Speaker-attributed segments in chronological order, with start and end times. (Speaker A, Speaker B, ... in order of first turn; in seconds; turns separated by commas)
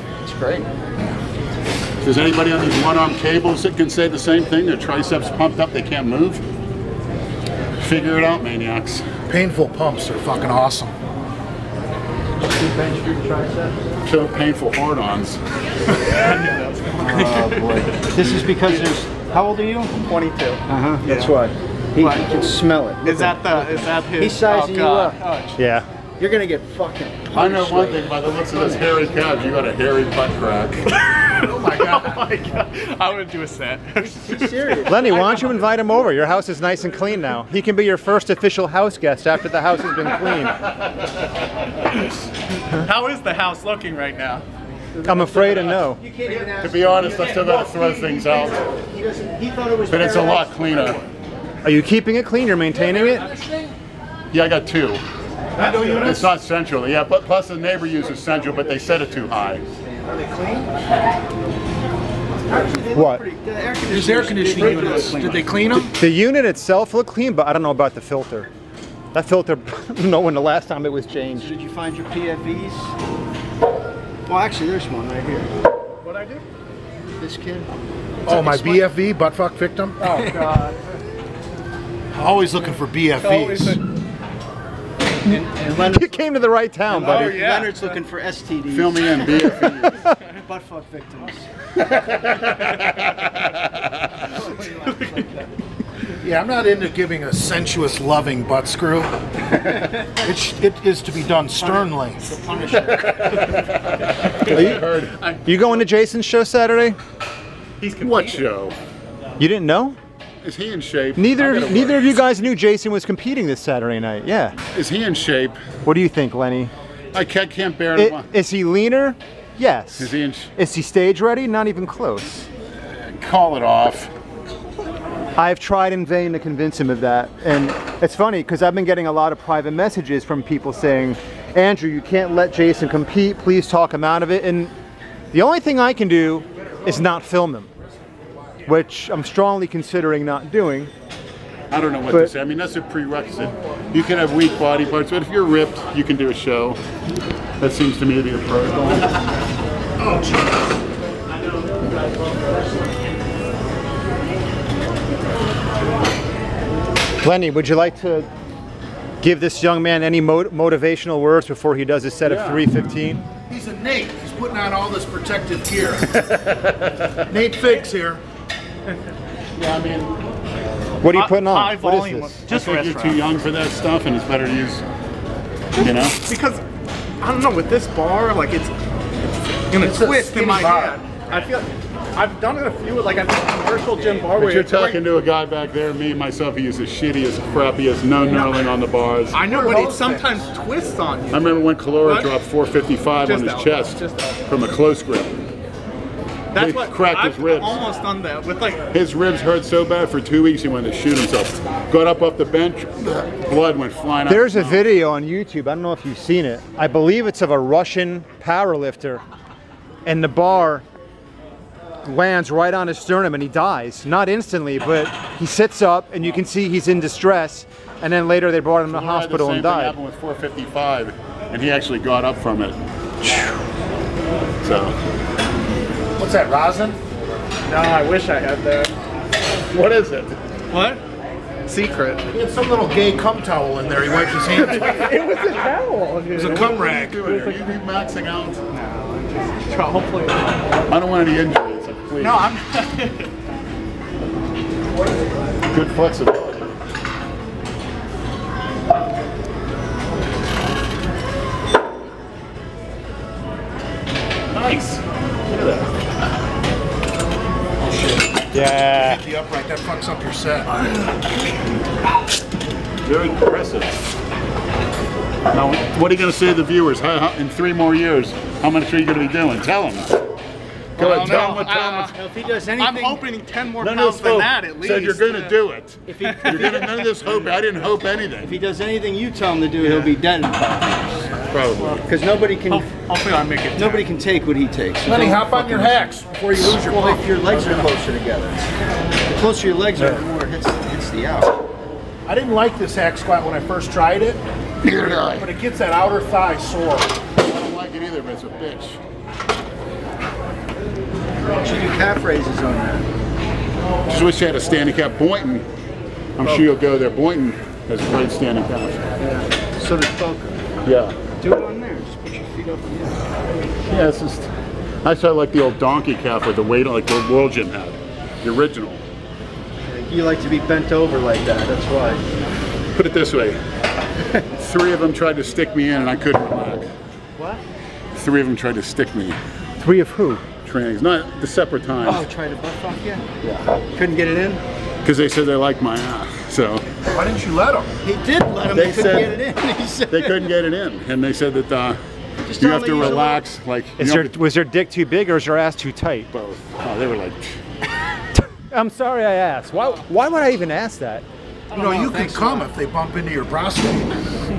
Speaker A: 0.2-0.7, Speaker B: 2.0-6.4, Speaker B: 7.8-9.1, Speaker C: 9.3-10.9, Speaker A: 12.7-13.7, Speaker B: 14.0-15.4, Speaker D: 16.0-18.1, Speaker A: 17.0-20.0, Speaker D: 20.0-21.3, Speaker A: 20.7-25.2, Speaker D: 22.0-22.3, Speaker D: 23.0-25.6, Speaker E: 25.6-25.9, Speaker A: 26.2-28.9, Speaker B: 27.3-30.9, Speaker D: 31.0-34.9, Speaker C: 31.4-32.2, Speaker A: 34.0-35.4, Speaker E: 34.9-40.6, Speaker D: 42.7-44.4, Speaker D: 45.0-47.4, Speaker E: 45.0-46.0, Speaker A: 46.0-51.1, Speaker B: 46.6-48.6, Speaker B: 49.9-51.0, Speaker E: 51.6-53.3, Speaker B: 54.3-55.0, Speaker C: 55.6-56.3, Speaker D: 55.6-56.1, Speaker B: 55.9-59.6, Speaker C: 60.0-60.7, Speaker A: 62.5-65.8, Speaker E: 62.9-63.2, Speaker C: 63.9-65.9, Speaker D: 64.7-65.4, Speaker E: 65.9-68.5, Speaker E: 69.1-71.5, Speaker A: 71.4-72.9, Speaker A: 74.3-75.5, Speaker D: 76.0-76.4, Speaker A: 77.1-77.7, Speaker C: 78.2-80.1, Speaker A: 78.3-78.8, Speaker D: 80.0-80.8, Speaker A: 80.1-80.7, Speaker C: 82.1-83.8, Speaker D: 83.2-83.8, Speaker A: 85.2-86.2, Speaker E: 85.5-87.4, Speaker A: 86.9-91.5, Speaker D: 86.9-88.0, Speaker B: 88.7-90.0, Speaker B: 91.8-94.1, Speaker A: 94.2-95.5, Speaker D: 94.7-95.4, Speaker C: 96.2-102.2, Speaker A: 101.6-103.5, Speaker B: 103.3-105.2, Speaker E: 104.5-104.9, Speaker E: 105.4-107.0, Speaker D: 107.8-108.5, Speaker B: 108.0-108.8, Speaker E: 109.4-110.0, Speaker B: 110.4-112.2, Speaker E: 111.2-114.5, Speaker B: 114.7-115.6, Speaker E: 115.8-116.7, Speaker B: 117.1-118.3, Speaker E: 117.9-122.5, Speaker B: 120.0-120.5, Speaker B: 123.0-124.1, Speaker E: 125.3-134.7, Speaker E: 135.3-137.7, Speaker E: 138.6-140.9, Speaker B: 141.7-146.8, Speaker B: 147.6-149.2, Speaker C: 150.0-150.6, Speaker E: 157.2-158.3, Speaker E: 159.2-163.2, Speaker B: 162.2-162.6, Speaker C: 163.5-166.2, Speaker B: 166.2-167.2, Speaker C: 167.3-168.2, Speaker B: 169.6-170.2, Speaker E: 171.0-172.4, Speaker D: 171.1-173.2, Speaker B: 172.5-174.8, Speaker B: 175.8-176.2, Speaker D: 175.8-176.6, Speaker D: 177.2-178.7, Speaker D: 179.7-185.1, Speaker C: 179.7-181.0, Speaker B: 184.3-189.4, Speaker D: 188.2-188.6, Speaker D: 189.3-192.3, Speaker C: 189.4-190.5, Speaker B: 191.3-195.5, Speaker D: 193.2-194.4, Speaker D: 196.5-198.9, Speaker B: 196.5-197.8, Speaker B: 198.9-204.9, Speaker E: 204.3-209.2, Speaker E: 210.0-210.8, Speaker E: 212.0-219.9, Speaker B: 218.9-223.5, Speaker B: 224.6-224.9, Speaker C: 226.2-227.0, Speaker D: 227.7-228.9, Speaker B: 229.7-230.4, Speaker D: 230.7-231.0, Speaker D: 231.7-232.2, Speaker C: 232.3-235.2, Speaker D: 234.6-236.7, Speaker C: 236.3-237.3, Speaker B: 236.4-238.6, Speaker D: 237.2-237.6, Speaker D: 238.7-240.7, Speaker B: 240.9-242.5, Speaker D: 242.2-243.3, Speaker B: 245.7-246.7, Speaker B: 254.5-255.9, Speaker C: 257.8-260.7, Speaker E: 258.5-259.2, Speaker B: 263.0-264.0, Speaker B: 265.5-270.2, Speaker B: 271.0-272.1, Speaker D: 271.0-272.1, Speaker C: 271.1-271.6, Speaker A: 272.1-273.2, Speaker D: 272.8-275.6, Speaker B: 273.8-278.6, Speaker A: 276.1-276.9, Speaker D: 276.2-276.9, Speaker A: 278.4-281.3, Speaker D: 279.8-280.1, Speaker B: 281.5-282.0, Speaker A: 282.0-282.9, Speaker D: 282.7-284.1, Speaker A: 283.7-286.0, Speaker C: 285.1-287.9, Speaker A: 286.6-288.6, Speaker A: 289.3-291.6, Speaker C: 292.2-294.4, Speaker B: 294.8-295.5, Speaker C: 295.0-297.2, Speaker B: 297.4-299.0, Speaker A: 301.5-303.1, Speaker B: 304.1-305.6, Speaker B: 306.4-309.1, Speaker A: 309.2-310.6, Speaker B: 310.8-311.1, Speaker A: 311.4-313.2, Speaker B: 313.9-314.5, Speaker B: 315.0-319.0, Speaker A: 319.8-322.2, Speaker B: 322.9-323.6, Speaker B: 324.5-326.9, Speaker B: 328.1-329.4, Speaker E: 329.8-330.4, Speaker B: 330.6-332.3, Speaker A: 332.0-333.2, Speaker B: 333.4-333.7, Speaker A: 333.9-334.6, Speaker B: 335.0-336.9, Speaker C: 337.1-337.9, Speaker A: 338.0-340.5, Speaker B: 338.7-339.4, Speaker B: 340.1-342.0, Speaker A: 342.5-343.4, Speaker B: 342.6-344.4, Speaker E: 344.0-346.3, Speaker B: 346.3-347.6, Speaker E: 348.4-351.2, Speaker A: 351.7-352.7, Speaker C: 351.7-354.1